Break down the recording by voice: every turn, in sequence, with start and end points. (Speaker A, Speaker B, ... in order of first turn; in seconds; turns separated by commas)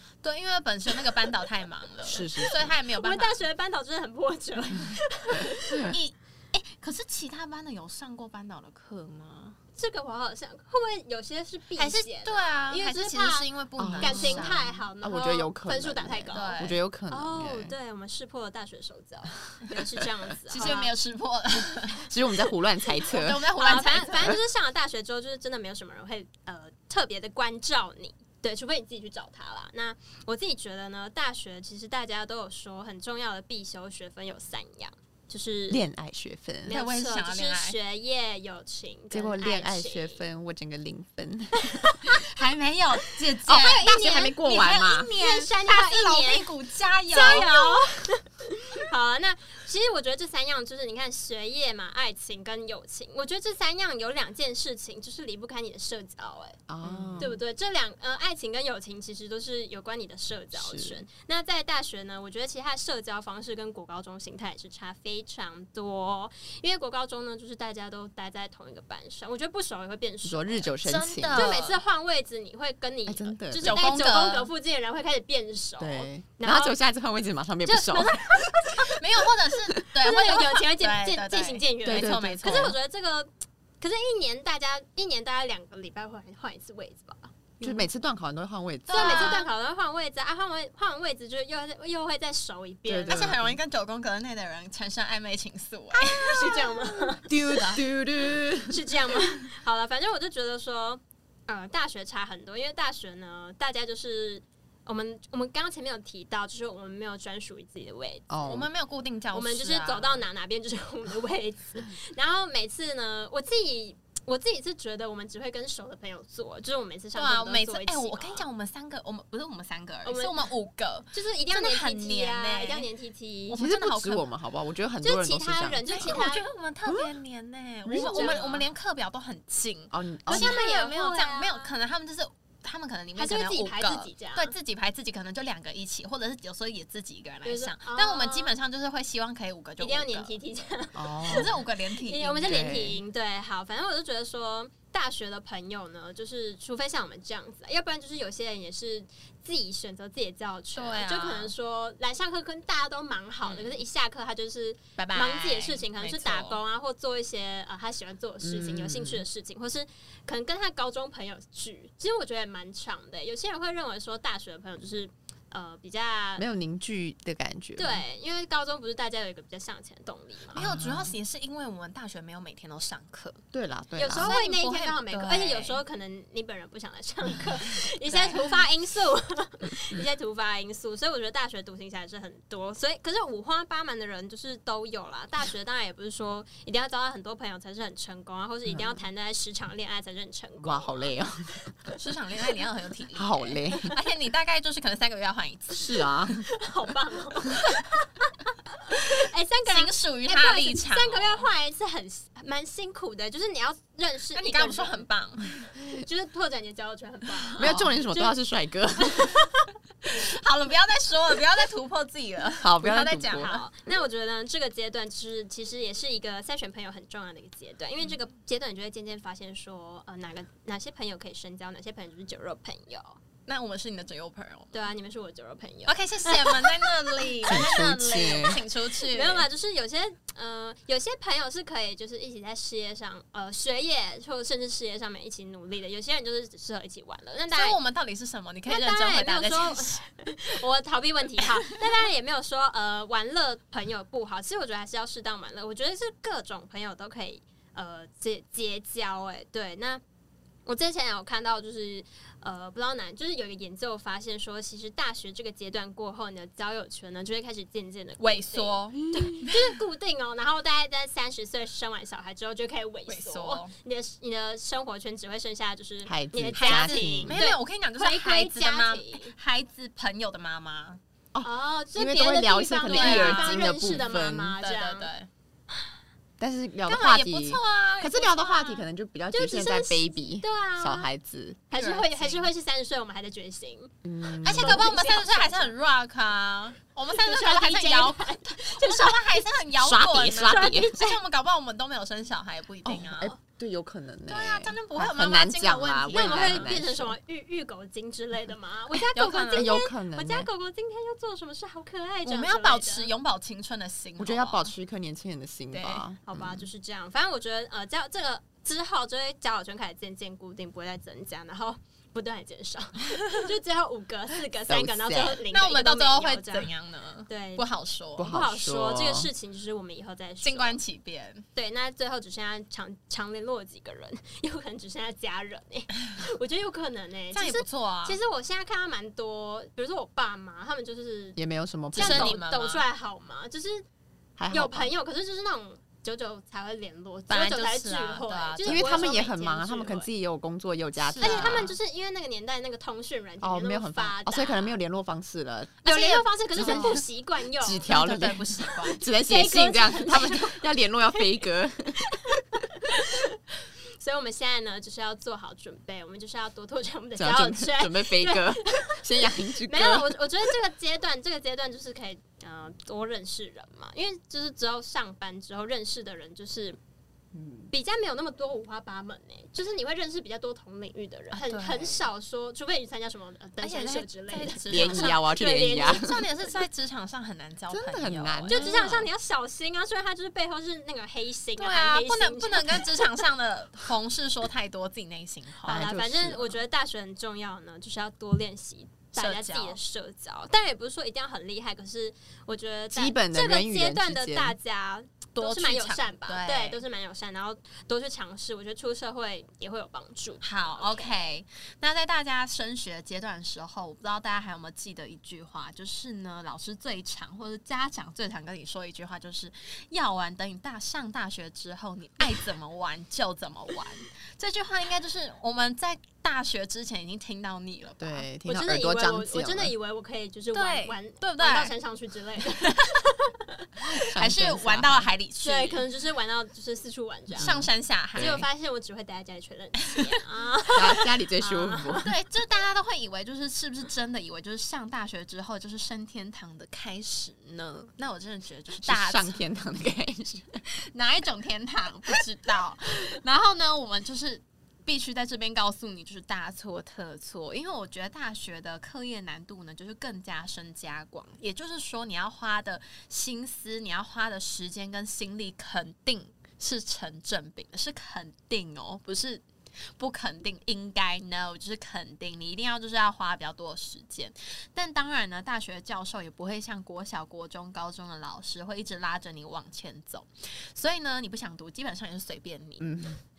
Speaker A: 0.2-3.4, Speaker B: 2.0-2.7, Speaker C: 3.0-5.9, Speaker B: 5.7-6.0, Speaker A: 5.9-9.6, Speaker C: 9.8-13.5, Speaker A: 11.8-14.7, Speaker B: 13.8-17.7, Speaker C: 14.0-20.9, Speaker A: 16.3-16.8, Speaker A: 20.5-22.1, Speaker B: 20.6-20.9, Speaker B: 22.0-23.5, Speaker A: 23.0-24.4, Speaker C: 23.6-35.9, Speaker B: 35.7-36.8, Speaker C: 36.7-40.2, Speaker A: 36.7-37.8, Speaker B: 39.1-42.1, Speaker C: 41.7-42.1, Speaker A: 42.1-47.9, Speaker B: 43.5-45.1, Speaker C: 43.5-44.4, Speaker C: 45.2-46.5, Speaker C: 47.1-56.6, Speaker B: 56.7-57.4, Speaker A: 56.8-57.3, Speaker C: 57.2-70.7, Speaker B: 60.5-61.0, Speaker B: 70.2-71.6, Speaker A: 70.8-71.8, Speaker C: 71.3-76.8, Speaker B: 73.1-73.8, Speaker A: 73.6-74.5, Speaker B: 75.8-79.0, Speaker C: 77.7-79.0, Speaker A: 78.9-82.8, Speaker C: 80.0-83.3, Speaker B: 81.9-82.8, Speaker C: 83.8-87.3, Speaker A: 87.6-87.8, Speaker B: 87.6-89.4, Speaker A: 88.9-89.5, Speaker C: 88.9-93.3, Speaker B: 92.9-93.6, Speaker A: 93.1-96.8, Speaker C: 95.9-97.6, Speaker B: 97.2-99.4, Speaker A: 97.5-97.8, Speaker C: 98.6-108.3, Speaker B: 108.3-108.7, Speaker A: 108.4-110.2, Speaker C: 109.3-118.4, Speaker A: 117.2-122.9, Speaker C: 120.0-120.5, Speaker C: 121.1-123.6, Speaker A: 123.5-124.2, Speaker B: 123.5-126.2, Speaker C: 125.0-126.5, Speaker A: 125.9-140.4, Speaker B: 126.9-127.1, Speaker B: 127.9-128.5, Speaker C: 127.9-128.7, Speaker B: 129.9-130.6, Speaker C: 130.3-131.7, Speaker C: 133.2-134.5, Speaker C: 137.4-138.5, Speaker C: 139.8-166.4, Speaker B: 140.9-141.6, Speaker A: 141.2-142.7, Speaker B: 142.5-143.0, Speaker A: 150.7-151.5, Speaker A: 153.4-153.8, Speaker A: 155.0-156.6, Speaker B: 158.4-159.2, Speaker B: 166.4-168.0, Speaker C: 167.8-170.6, Speaker B: 170.5-171.2, Speaker A: 170.6-173.4, Speaker B: 173.5-174.3, Speaker C: 174.0-191.2, Speaker A: 174.2-175.8, Speaker A: 178.1-178.6, Speaker B: 188.7-189.0, Speaker B: 190.6-191.6, Speaker A: 191.9-196.0, Speaker B: 193.2-193.9, Speaker B: 195.7-196.5, Speaker C: 196.4-205.1, Speaker A: 199.2-201.5, Speaker A: 204.3-205.6, Speaker C: 205.8-208.3, Speaker A: 207.5-207.9, Speaker B: 207.6-209.5, Speaker C: 209.0-209.6, Speaker A: 210.1-213.7, Speaker B: 212.6-213.6, Speaker C: 213.4-223.2, Speaker A: 223.5-224.8, Speaker C: 224.7-227.3, Speaker A: 225.9-229.5, Speaker B: 227.4-228.6, Speaker C: 229.0-237.8, Speaker A: 237.5-240.0, Speaker C: 238.7-250.0, Speaker C: 250.7-269.4, Speaker A: 258.2-259.8, Speaker A: 263.1-263.7, Speaker B: 266.1-267.4, Speaker A: 266.6-271.0, Speaker B: 271.3-274.6, Speaker C: 271.4-275.1, Speaker A: 272.8-275.3, Speaker B: 276.4-281.6, Speaker A: 276.9-278.9, Speaker C: 279.3-281.1, Speaker C: 281.7-283.9, Speaker A: 281.7-282.5, Speaker B: 284.0-284.9, Speaker A: 284.4-293.3, Speaker C: 284.5-285.7, Speaker C: 287.2-289.4, Speaker B: 289.8-290.9, Speaker C: 290.4-291.2, Speaker B: 292.9-297.2, Speaker A: 294.3-296.7, Speaker C: 296.1-303.1, Speaker A: 299.1-299.8, Speaker B: 299.5-300.5, Speaker A: 302.2-304.7, Speaker B: 304.2-306.6, Speaker A: 305.7-306.1, Speaker C: 306.3-316.7, Speaker B: 314.7-315.4, Speaker A: 315.5-318.3, Speaker C: 317.3-317.6, Speaker B: 318.2-319.3, Speaker C: 318.2-320.8, Speaker A: 320.4-321.4, Speaker C: 321.6-331.4, Speaker A: 327.3-328.2, Speaker B: 331.4-332.4, Speaker A: 331.9-332.8, Speaker C: 331.9-333.9, Speaker B: 334.4-334.9, Speaker C: 334.5-340.1, Speaker A: 337.3-339.2, Speaker B: 338.6-341.7, Speaker A: 341.0-341.8, Speaker C: 341.2-344.8, Speaker B: 343.4-345.9, Speaker A: 345.8-347.0, Speaker C: 345.9-347.9, Speaker B: 346.6-347.0, Speaker B: 347.6-352.4, Speaker A: 347.8-349.0, Speaker C: 349.2-351.3, Speaker C: 352.0-353.4, Speaker C: 354.0-366.8, Speaker B: 357.2-360.2, Speaker B: 367.3-367.7, Speaker C: 367.7-376.2, Speaker A: 371.3-372.0, Speaker A: 373.6-378.9, Speaker B: 374.7-376.2, Speaker B: 377.7-379.1, Speaker C: 378.5-383.2, Speaker A: 381.6-385.9, Speaker B: 385.6-386.5, Speaker C: 385.7-401.3, Speaker A: 389.2-389.8, Speaker B: 392.9-394.6, Speaker A: 395.4-396.8, Speaker A: 400.4-418.3, Speaker B: 418.0-419.7, Speaker C: 418.4-423.7, Speaker A: 420.5-421.7, Speaker A: 422.6-423.0, Speaker B: 423.8-425.1, Speaker A: 424.1-425.9, Speaker C: 425.4-427.6, Speaker B: 427.4-428.5, Speaker A: 427.4-428.4, Speaker C: 428.2-432.1, Speaker B: 430.7-432.1, Speaker A: 432.0-439.4, Speaker B: 438.8-440.6, Speaker A: 440.8-459.4, Speaker A: 460.0-472.9, Speaker B: 472.8-473.2